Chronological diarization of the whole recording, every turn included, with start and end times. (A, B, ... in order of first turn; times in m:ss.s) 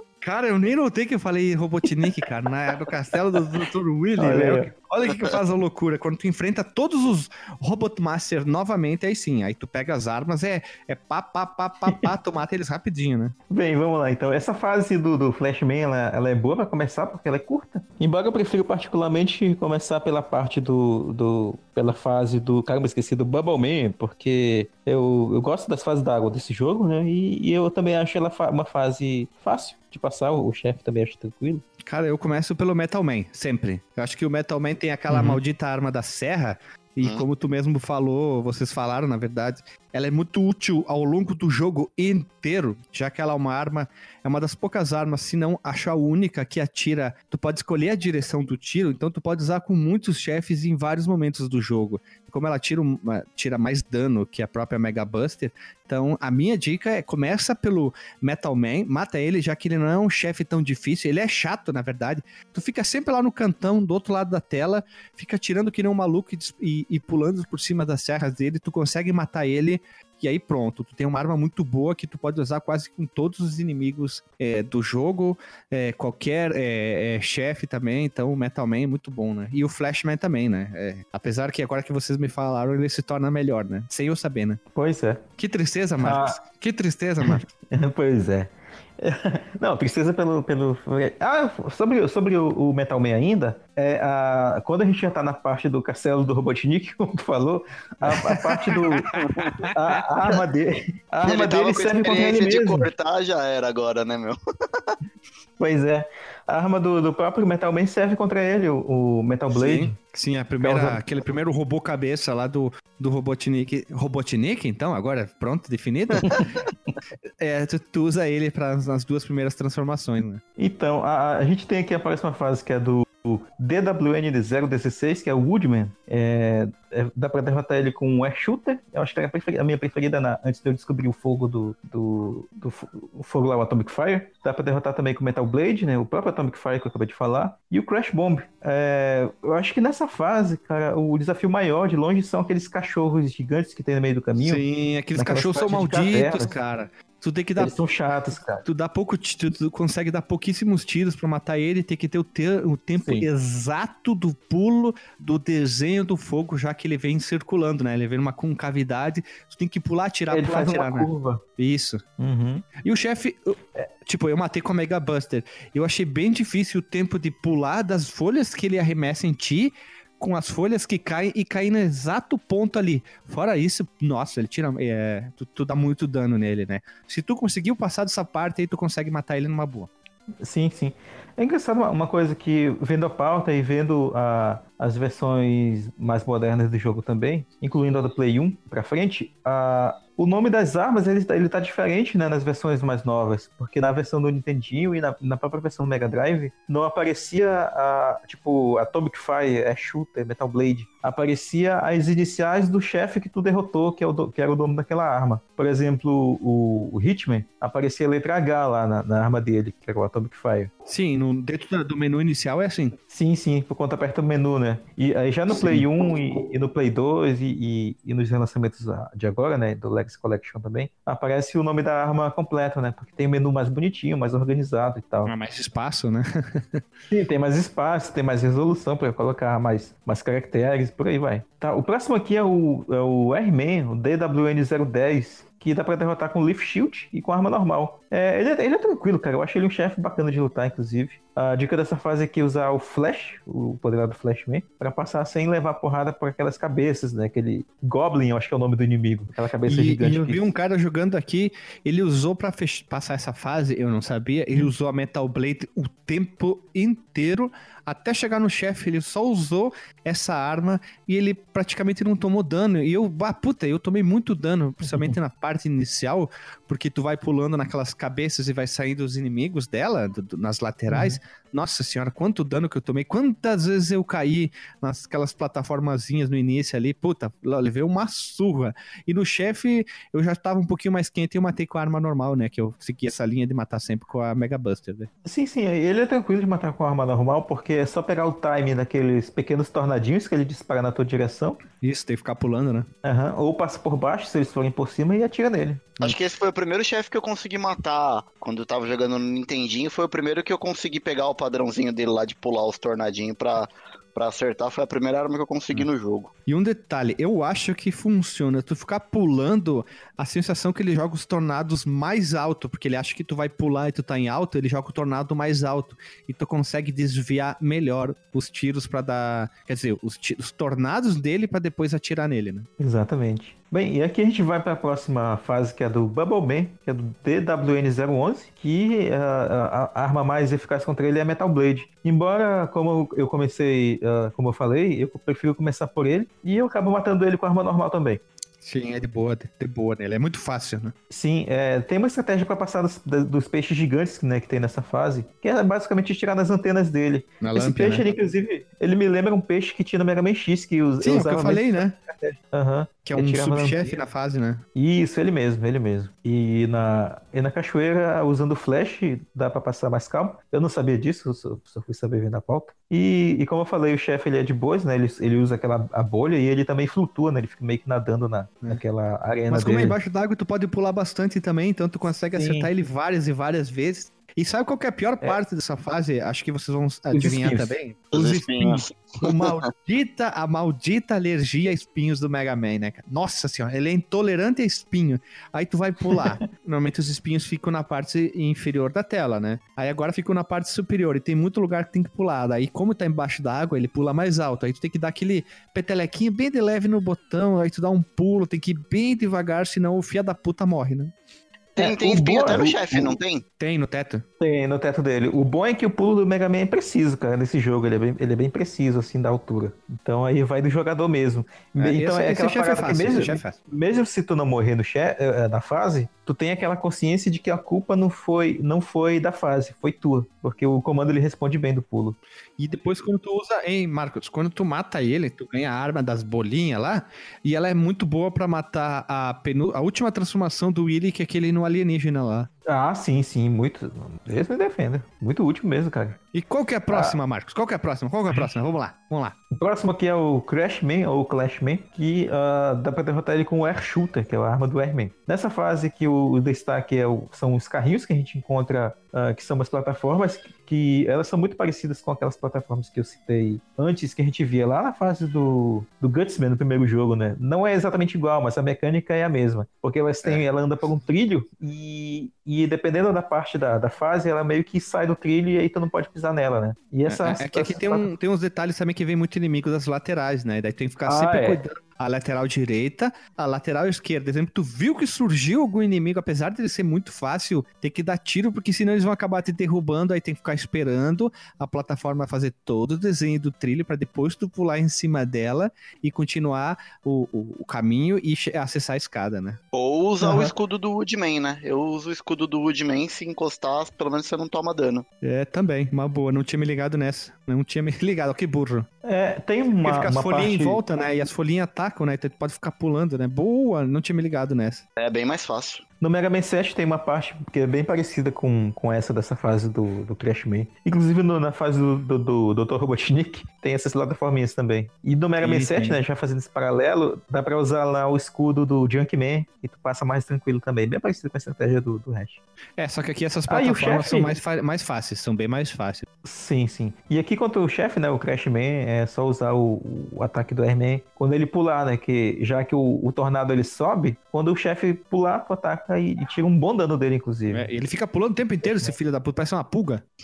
0:00.2-0:13.3 A
0:04.2-0:04.7 B
0:13.5-0:31.6 B
0:31.8-1:24.6 A
0:35.1-0:35.4 B
1:24.7-1:25.2 B
1:25.4-1:27.4 A
1:26.0-1:26.4 B
1:27.2-1:39.1 B
1:38.0-1:39.7 A
1:39.7-1:42.9 B
1:41.2-1:45.0 C
1:45.6-1:49.9 B
1:49.5-1:56.4 A
1:50.6-1:51.0 B
1:57.4-2:00.4 A
2:00.6-2:24.6 B
2:24.4-2:27.8 A
2:25.1-2:26.5 B
2:27.6-2:28.6 B
2:28.6-2:42.0 A
2:33.0-2:33.3 B
2:40.3-2:41.4 B
2:42.2-2:42.6 B
2:42.8-2:59.9 A
3:00.4-3:30.7 B
3:30.9-3:33.0 A
3:33.1-3:45.3 B
3:45.2-3:46.8 A
3:47.1-4:10.5 B
4:09.7-4:45.1 A
4:24.8-4:25.1 B
4:30.9-4:31.2 B
4:45.2-4:51.6 B
4:51.8-4:52.9 A
4:53.0-4:56.2 B
4:56.0-5:06.3 C
5:06.5-5:22.7 A
5:22.8-5:38.2 B
5:38.6-5:40.9 A
5:41.1-5:54.0 B
5:47.4-5:48.0 A
5:51.0-5:52.0 A
5:53.0-5:54.6 A
5:54.7-6:10.0 B
6:09.5-6:41.1 A
6:12.3-6:12.7 B
6:17.1-6:17.7 B
6:18.1-6:19.6 C
6:41.8-6:43.4 C
6:41.8-6:43.2 B
6:43.6-6:44.2 A
6:44.4-7:02.2 B
6:51.8-6:53.6 A
7:02.6-7:12.5 A
7:12.6-7:16.2 B
7:16.3-7:19.3 A
7:16.9-7:17.2 B
7:19.5-7:48.1 B
7:47.0-8:09.6 A
7:51.0-7:51.6 B
8:09.7-8:15.0 C
8:10.2-8:10.5 B
8:15.2-8:18.9 A
8:19.0-8:20.8 B
8:19.8-8:24.8 A
8:25.0-8:25.8 C
8:26.0-8:42.4 B
8:35.4-8:36.0 A
8:42.8-8:46.1 A
8:43.5-8:44.4 B
8:46.2-8:57.7 B
8:57.5-9:00.0 A
8:58.6-8:58.9 B